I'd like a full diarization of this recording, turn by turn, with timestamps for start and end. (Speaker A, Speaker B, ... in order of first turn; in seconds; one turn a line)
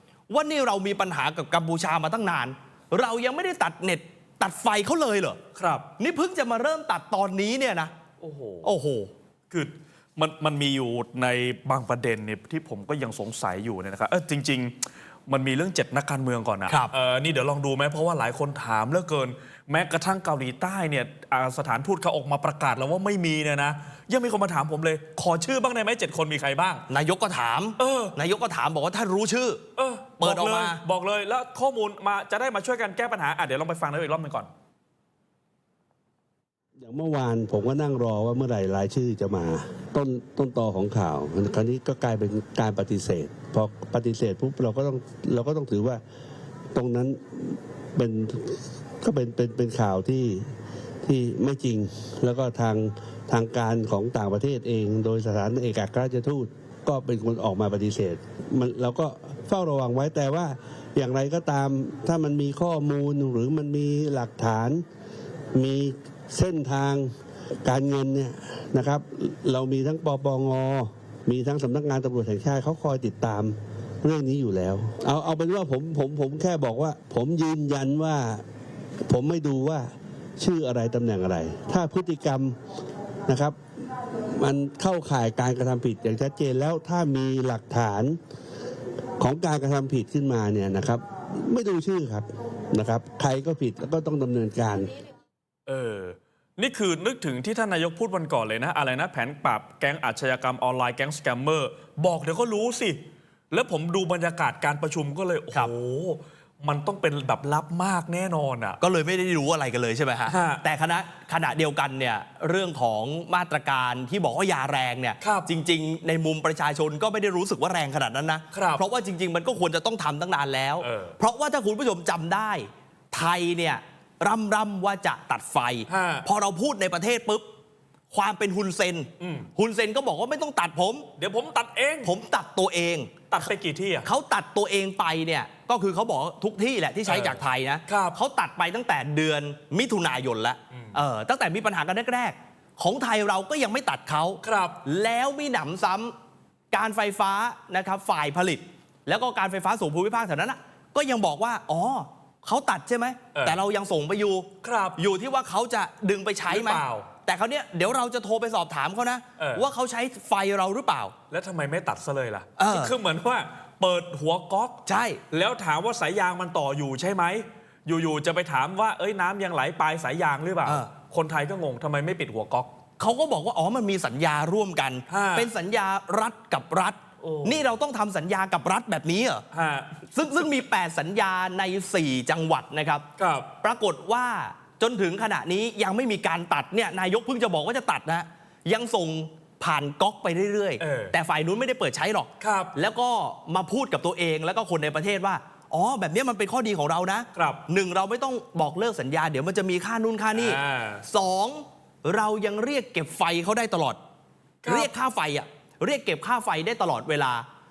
Speaker A: 0.3-5.4
Speaker B: 5.5-5.9
Speaker A: 6.0-7.9
Speaker B: 8.2-8.7
Speaker A: 8.6-9.1
Speaker B: 9.5-26.8
Speaker A: 16.7-16.9
Speaker A: 26.9-29.6
Speaker B: 27.8-28.1
Speaker B: 29.8-34.5
Speaker A: 30.2-30.8
Speaker C: 36.8-46.0
Speaker C: 46.7-50.5
Speaker C: 51.0-64.8
Speaker C: 65.5-67.1
Speaker C: 67.6-78.4
Speaker C: 79.1-82.5
Speaker C: 83.3-83.5
Speaker C: 84.3-88.2
Speaker C: 89.2-95.0
Speaker B: 95.7-103.0
Speaker B: 103.5-108.8
Speaker A: 108.8-127.4
Speaker B: 110.3-110.6
Speaker B: 115.2-115.5
Speaker B: 118.5-118.8
Speaker B: 120.8-121.2
Speaker B: 125.9-126.2
Speaker A: 128.1-131.1
Speaker B: 129.2-129.5
Speaker B: 131.2-132.1
Speaker A: 132.0-133.2
Speaker B: 133.3-134.1
Speaker A: 134.0-146.1
Speaker B: 137.1-138.1
Speaker B: 144.4-144.8
Speaker A: 146.7-161.1
Speaker B: 153.3-153.6
Speaker B: 154.6-155.0
Speaker B: 156.5-157.1
Speaker B: 159.4-159.7
Speaker B: 161.3-172.7
Speaker A: 162.6-162.9
Speaker A: 164.8-165.2
Speaker A: 173.0-179.4
Speaker B: 175.1-175.5
Speaker B: 177.2-177.6
Speaker B: 179.5-180.0
Speaker A: 180.1-183.1
Speaker B: 183.2-183.5
Speaker A: 183.6-204.0
Speaker B: 190.8-191.1
Speaker B: 192.4-192.7
Speaker B: 197.3-197.6
Speaker B: 200.3-201.0
Speaker B: 204.6-204.9
Speaker A: 204.6-207.4